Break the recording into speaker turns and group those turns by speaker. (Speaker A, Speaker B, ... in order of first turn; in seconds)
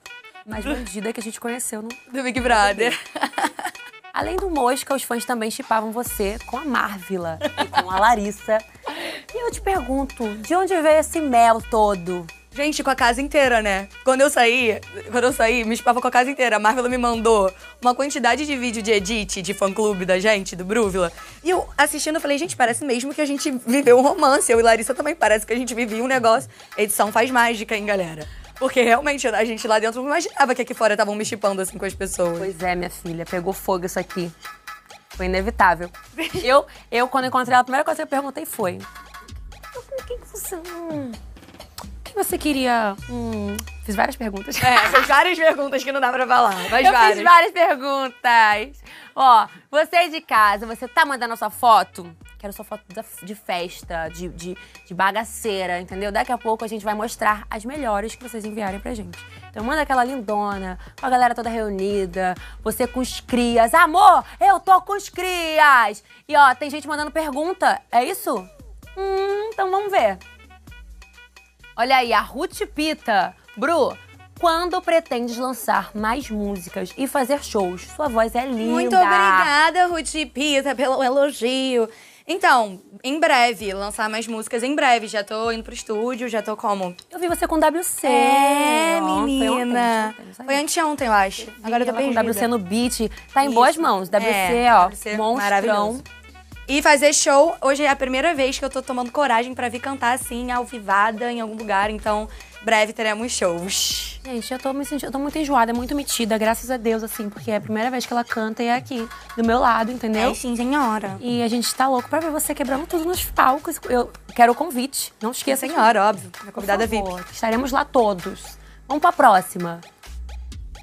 Speaker A: 0.4-3.0, 4.1-12.3, 32.4-34.3, 35.1-38.9, 39.7-41.2, 42.0-45.0, 46.7-70.2, 71.8-79.5, 87.1-90.6, 91.4-96.0, 104.2-110.4, 111.2-115.9, 116.5-119.8
Speaker B: 2.1-3.5, 12.5-32.5, 44.6-47.3, 78.6-87.0, 88.0-92.5, 93.4-96.0, 96.7-104.2, 110.2-111.2, 115.5-117.1